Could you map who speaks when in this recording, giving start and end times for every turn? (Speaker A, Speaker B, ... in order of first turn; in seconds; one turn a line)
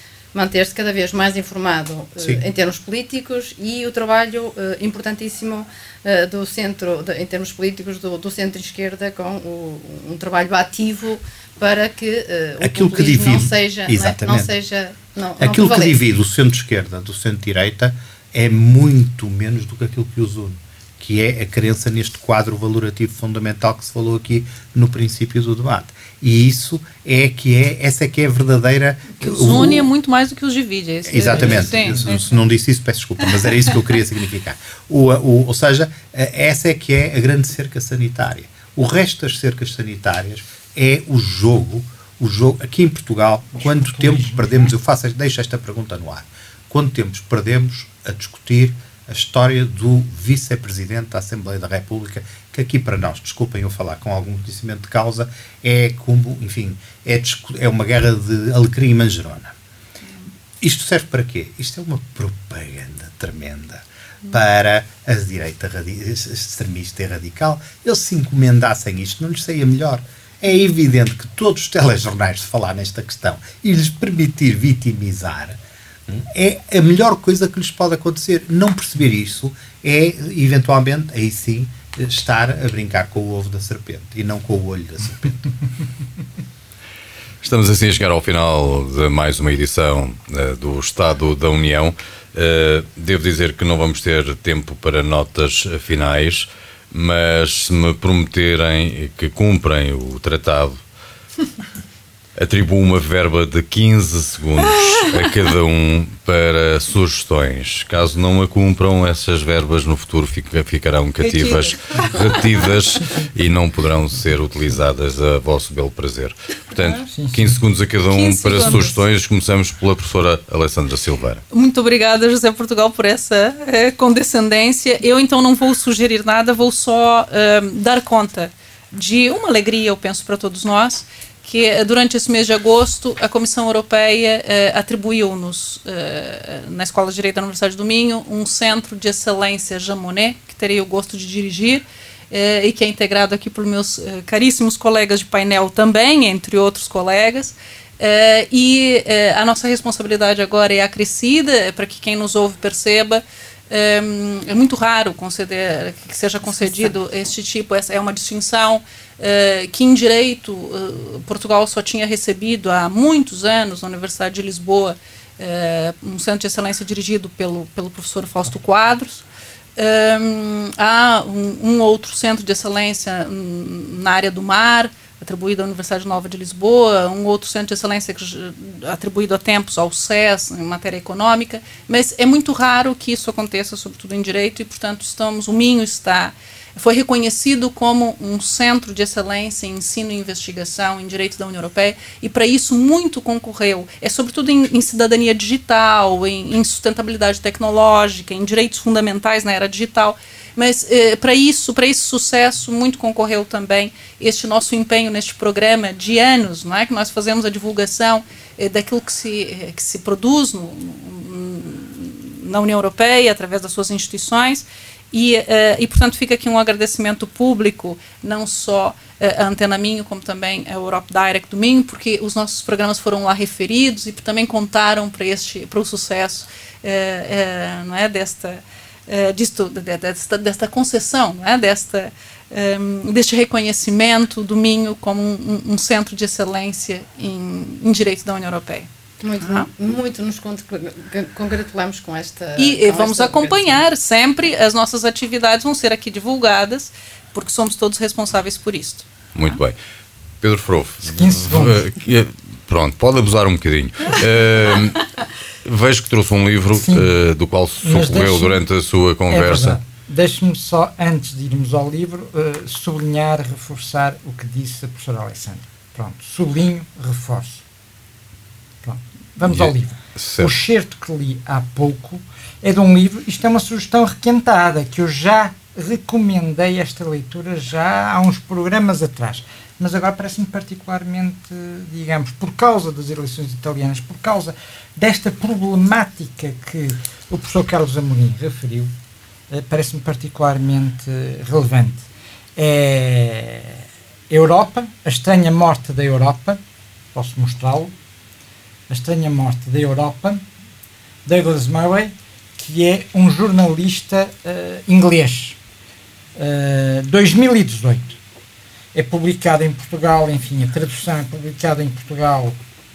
Speaker A: 0.3-16.0
Speaker B: 12.6-14.5
Speaker B: 15.4-29.9
Speaker C: 29.2-32.2
Speaker B: 31.1-59.5
Speaker D: 43.6-44.7
Speaker B: 60.6-75.6
Speaker B: 76.1-85.4
Speaker E: 87.4-100.8
Speaker E: 102.3-121.4
Speaker C: 111.3-111.7
Speaker D: 116.9-117.6
Speaker C: 118.1-119.0
Speaker D: 118.5-118.9
Speaker C: 121.5-169.2
Speaker C: 169.8-238.9
Speaker A: 239.2-243.8
Speaker C: 239.4-239.7
Speaker C: 242.6-249.6
Speaker E: 249.3-249.8
Speaker E: 250.4-255.1
Speaker D: 251.0-251.8
Speaker E: 255.6-259.8
Speaker D: 256.7-257.1
Speaker D: 257.8-258.6
Speaker D: 259.3-267.6
Speaker D: 268.8-288.9
Speaker E: 269.4-270.5
Speaker D: 289.5-292.0
Speaker D: 292.6-296.6
Speaker D: 297.1-297.9
Speaker D: 298.9-300.4
Speaker D: 301.2-305.6
Speaker D: 306.3-308.2
Speaker D: 308.9-312.6